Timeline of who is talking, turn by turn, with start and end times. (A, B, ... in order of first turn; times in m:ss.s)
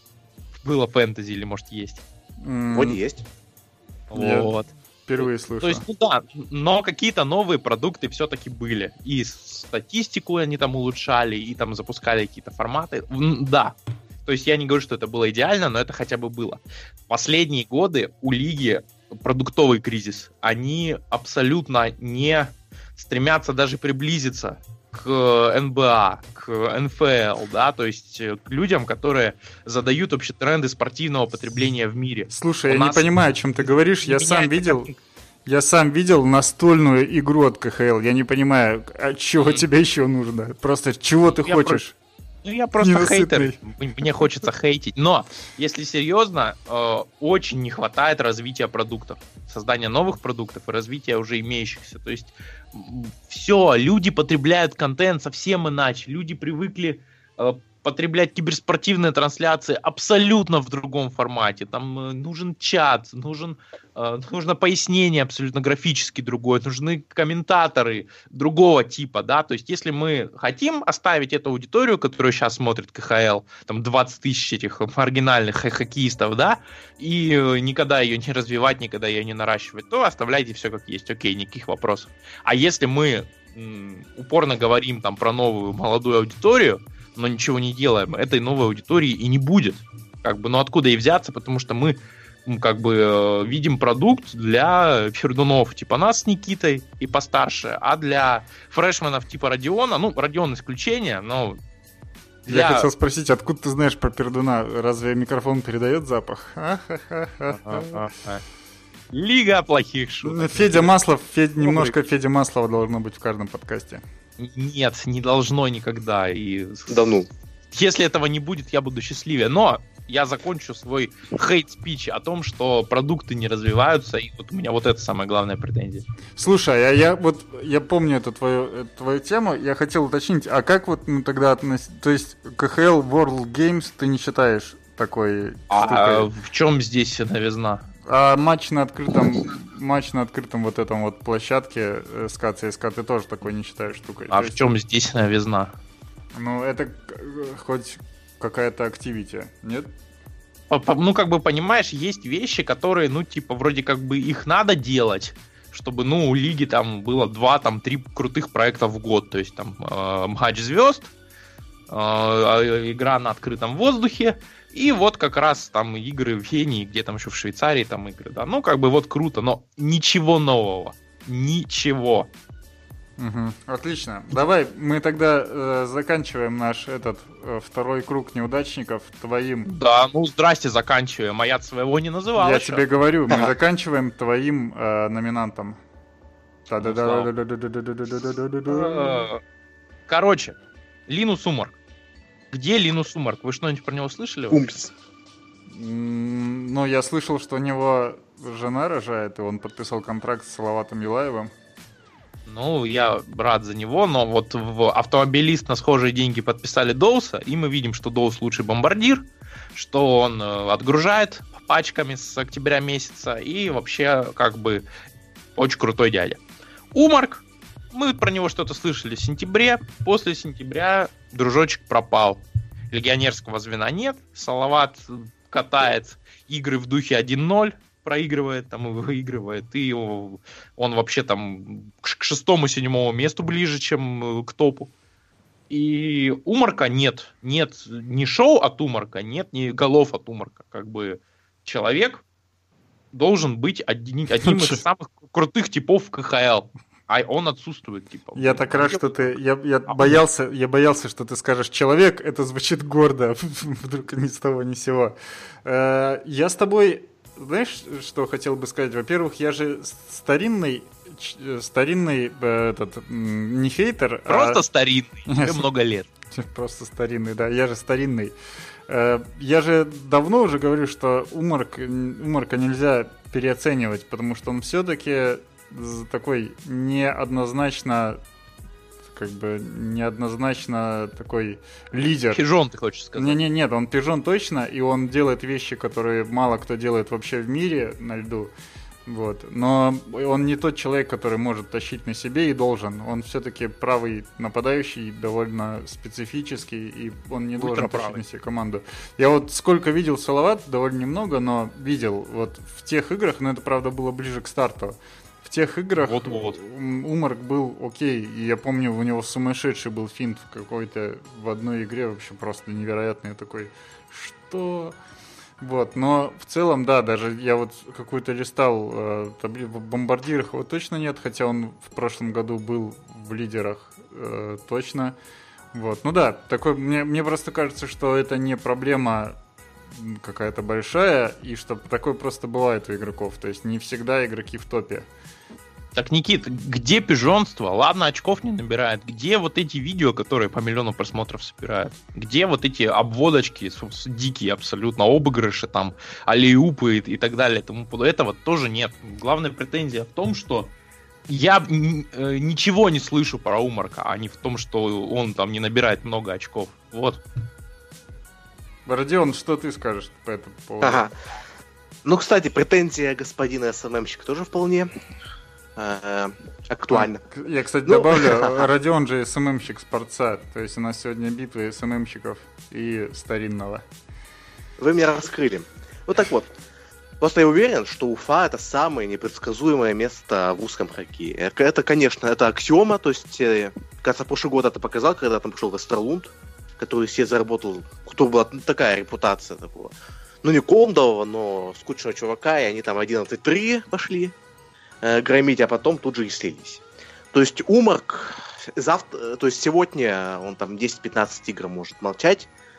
0:00.6-0:02.0 A
0:02.4-0:03.0 B
0:02.7-0:03.2 C
0:04.1-0:33.1 A
0:04.1-0:04.5 B
0:05.1-0:05.8 B
0:32.3-0:34.9 B
0:33.6-0:35.0 A
0:35.4-0:41.9 B
0:41.3-0:41.8 A
0:42.4-1:41.6 A
0:42.8-0:43.6 B
1:42.4-1:42.9 A
1:42.5-1:48.0 B
1:47.5-1:48.4 A
1:49.1-1:50.9 A
1:50.2-1:54.0 B
1:54.4-1:57.2 A
1:56.9-1:57.3 C
1:57.7-2:06.0 A
2:06.4-2:16.3 B
2:15.7-2:17.9 A
2:18.1-2:24.6 B
2:24.3-2:25.7 A
2:26.3-2:29.9 B
2:30.7-2:41.1 A
2:41.9-2:52.3 A
2:53.2-2:59.7 B
2:59.7-3:03.5 A
3:02.4-3:05.8 B
3:06.7-3:09.3 B
3:06.8-3:07.3 A
3:08.7-3:09.4 A
3:10.1-3:10.6 A
3:11.1-3:11.8 A
3:12.5-3:14.6 A
3:14.5-3:14.9 C
3:15.7-3:21.5 B
3:22.5-3:34.8 A
3:35.6-3:36.4 A
3:36.9-3:54.9 A
3:55.7-4:02.2 A
4:03.1-4:09.4 A
4:04.4-4:04.8 B
4:08.4-4:24.6 B
4:09.9-4:10.2 A
4:24.3-4:26.1 A
4:25.3-4:25.6 B
4:26.3-4:28.3 B
4:28.9-4:38.2 B
4:39.1-4:42.4 B
4:42.3-4:43.4 A
4:43.2-4:48.5 B
4:49.1-5:14.9 B
4:57.6-4:58.2 A
5:06.0-5:06.6 A
5:15.6-5:25.2 B
5:25.7-5:29.4 B
5:29.9-5:35.0 B
5:35.9-5:50.7 A
5:51.3-5:57.2 A
5:58.9-6:01.1 B
6:00.8-6:01.1 C
6:02.0-6:04.9 C
6:05.8-6:07.2 C
6:06.9-6:13.8 B
6:07.9-6:08.7 C
6:14.8-6:16.6 C
6:17.2-6:34.3 C
6:35.0-6:42.5 C